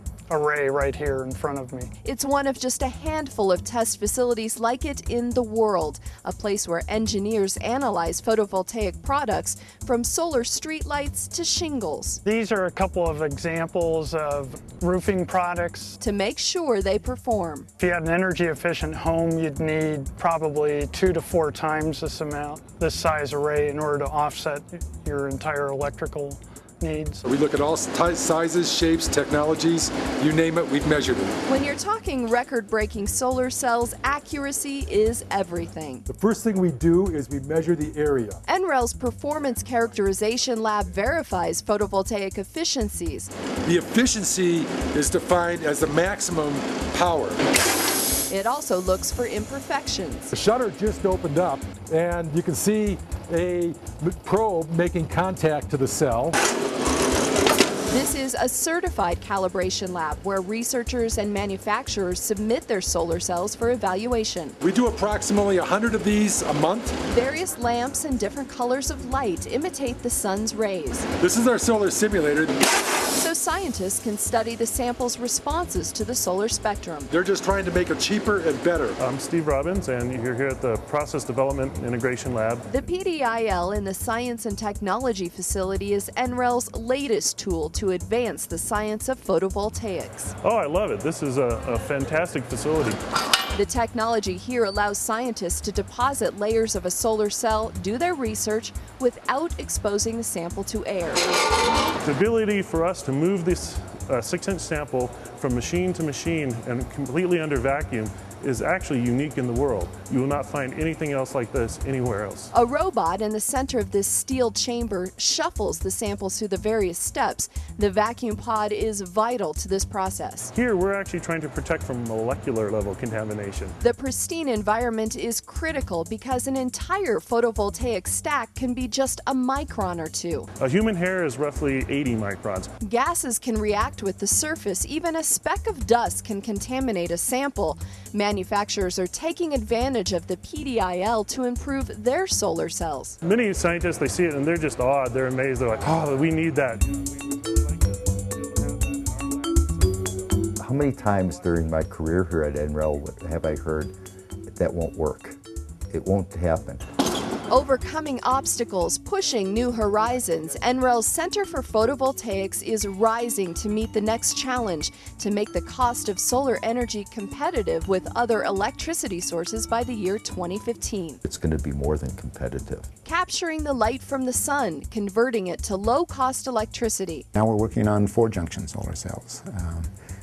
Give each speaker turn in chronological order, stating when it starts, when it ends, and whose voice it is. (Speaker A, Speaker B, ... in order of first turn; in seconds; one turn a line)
Speaker A: 0.3-1.9
Speaker B: 2.0-12.2
Speaker A: 12.2-15.9
Speaker B: 16.0-17.7
Speaker A: 17.8-27.2
Speaker C: 27.2-31.4
Speaker B: 31.5-36.1
Speaker C: 36.1-38.4
Speaker B: 38.5-43.3
Speaker C: 43.7-47.4
Speaker B: 48.3-50.3
Speaker C: 50.3-56.4
Speaker B: 57.9-64.5
Speaker C: 64.6-66.9
Speaker B: 67.1-71.1
Speaker C: 71.2-72.5
Speaker B: 73.2-77.1
Speaker C: 77.1-79.0
Speaker D: 79.0-82.7
Speaker B: 82.7-90.3
Speaker D: 90.4-93.0
Speaker B: 93.5-101.3
Speaker D: 102.0-112.5
Speaker B: 112.5-120.5
Speaker D: 120.5-123.8
Speaker B: 123.8-130.5
Speaker D: 130.6-132.7
Speaker B: 132.8-143.2
Speaker D: 143.2-150.1
Speaker E: 150.6-155.4
Speaker E: 155.9-156.8
Speaker B: 157.5-171.2
Speaker E: 171.2-172.9
Speaker B: 173.1-177.3
Speaker F: 177.3-179.9